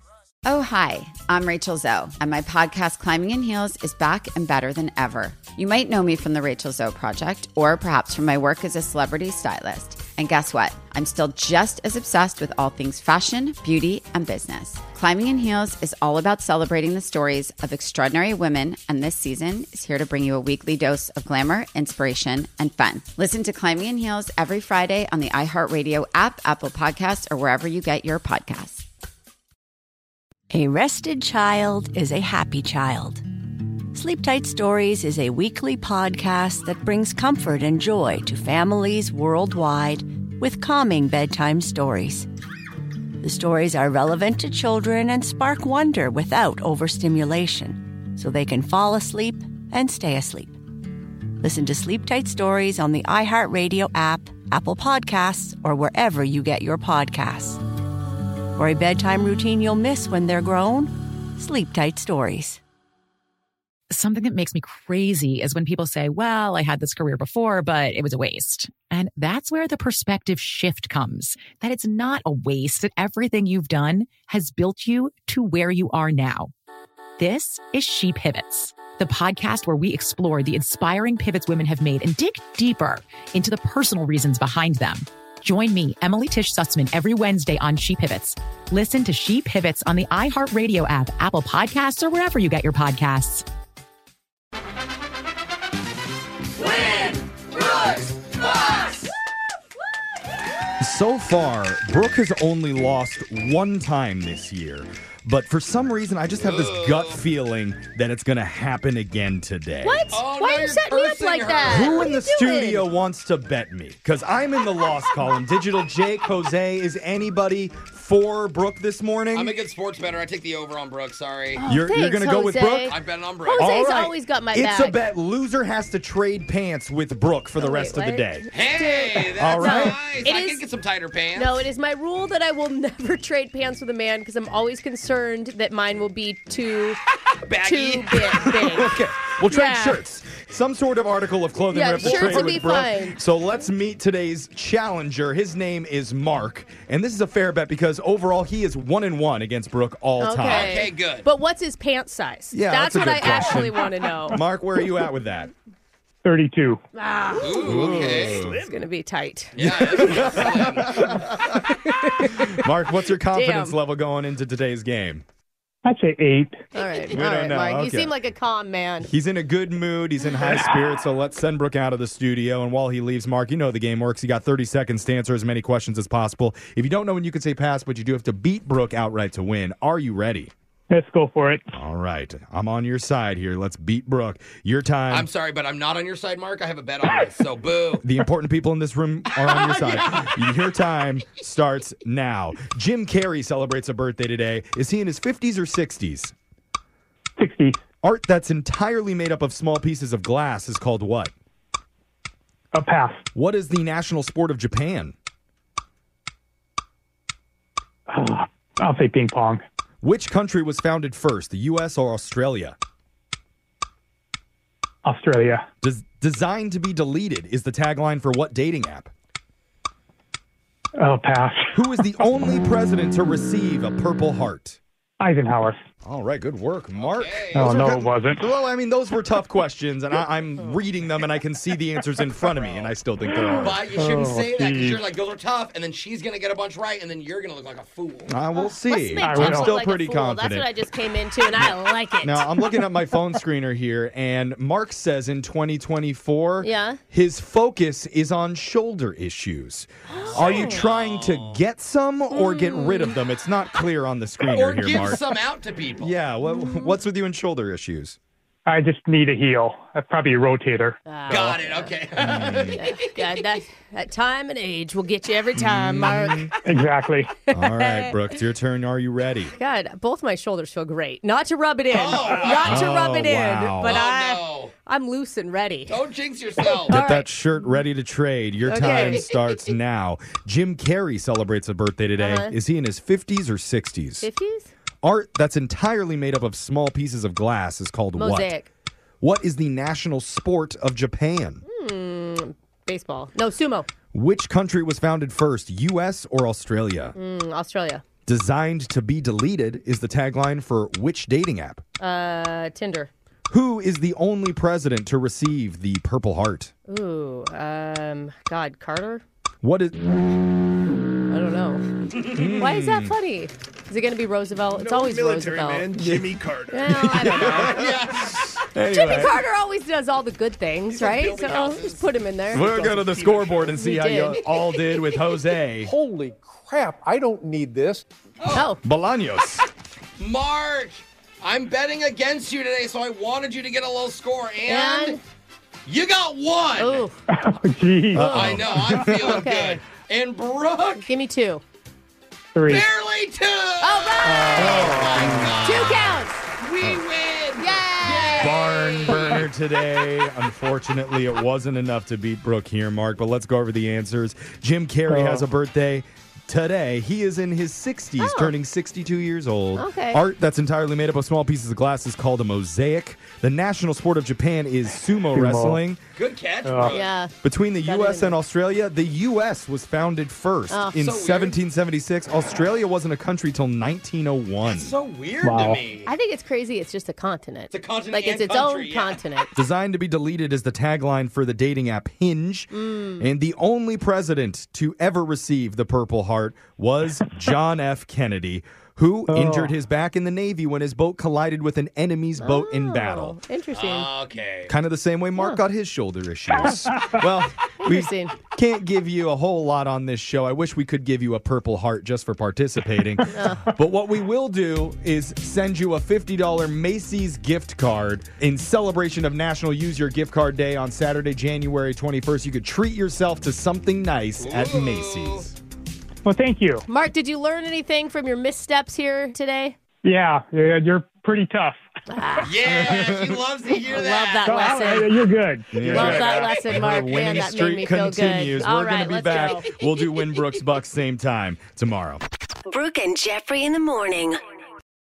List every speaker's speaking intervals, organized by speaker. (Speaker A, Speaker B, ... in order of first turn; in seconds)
Speaker A: 0.5-28.8
Speaker B: 30.5-33.2, 33.9-42.3, 43.2-50.6, 51.4-57.6, 58.5-62.6, 432.7-434.4
Speaker C: 63.9-76.5, 77.2-93.5
Speaker D: 96.6-99.1, 106.4-107.2, 110.1-112.1, 119.3-121.7, 122.8-123.6, 128.5-131.6, 137.4-138.5, 150.4-151.3, 157.4-158.4, 159.5-161.3, 185.1-188.1, 189.3-190.5, 227.0-228.0, 232.6-233.0, 233.6-238.4, 250.2-251.6, 254.4-256.2, 261.2-263.3, 271.9-273.0, 273.9-274.7, 275.9-277.0, 317.8-318.6, 320.9-322.1, 328.4-328.7, 330.2-335.2, 335.9-337.1, 338.3-341.2, 342.7-349.5, 366.1-367.1, 371.0-371.6, 374.6-376.1, 377.7-379.5, 393.7-394.7, 414.4-415.5, 422.4-424.6, 425.9-426.7
Speaker E: 100.8-110.0, 111.7-119.5, 121.7-122.9, 123.5-128.5, 129.2-130.0, 138.4-150.9, 152.5-155.5, 157.6-158.6, 159.6-161.2, 162.2-165.2, 167.1-168.1, 169.0-180.5, 181.8-185.3, 188.0-196.3, 198.0-201.3, 203.3-205.2, 210.0-212.8, 215.8-219.1, 221.8-224.8, 226.0-233.8, 238.3-240.7, 241.6-255.2, 256.0-258.2, 262.2-262.8, 265.6-266.5, 267.5-269.6, 272.6-274.0, 276.9-284.3, 285.0-288.5, 289.2-291.6, 294.1-297.1, 298.3-301.8, 303.5-306.7, 309.6-310.0, 312.3-313.1, 316.0-319.4, 322.5-325.9, 328.5-329.6, 338.1-339.5, 344.5-345.7, 348.3-366.0, 367.4-374.9, 379.5-393.4, 394.7-415.6, 422.6-423.4, 425.7-432.2
Speaker F: 109.8-112.9, 121.6-125.0, 127.6-130.7, 131.3-137.0, 137.6-140.0, 141.7-143.2, 150.2-154.4, 156.9-162.6, 163.3-163.8, 166.7-169.1, 238.5-242.9, 246.6-247.0, 250.4-250.8, 252.3-253.2, 256.5-257.0, 261.1-266.6, 267.4-268.1, 269.6-276.0, 276.6-277.3, 278.6-279.4, 282.2-282.6, 284.2-284.7, 288.2-288.7, 291.7-293.9, 297.1-298.0, 302.0-303.1, 306.9-309.2, 311.3-315.9, 316.7-317.9, 318.8-324.8, 328.5-328.8, 334.7-335.2, 336.8-337.2, 339.0-339.9, 341.0-341.6, 343.8-344.8, 345.6-346.5, 347.6-349.4, 358.2-358.5, 359.8-360.2, 366.9-367.3, 367.8-368.3, 370.7-371.0, 376.1-379.5, 382.7-383.2, 392.4-394.2, 396.6-396.9, 397.8-398.4, 403.3-403.7, 416.9-419.8, 422.1-423.1, 423.7-425.2, 425.8-429.7
Speaker G: 156.2-156.8, 165.8-166.7, 180.9-181.7, 197.4-197.8, 202.7-203.2, 208.1-209.6, 215.0-215.7, 221.0-221.7, 225.2-225.8, 227.6-228.4, 234.1-235.0, 239.2-239.7, 258.7-261.0, 266.7-267.4, 337.3-338.3, 342.5-342.8, 355.1-355.4, 365.3-365.8, 375.5-375.7, 389.3-389.7, 416.2-416.9, 420.0-421.8, 424.4-426.1
Speaker H: 314.7-317.9, 322.7-323.7, 325.3-328.1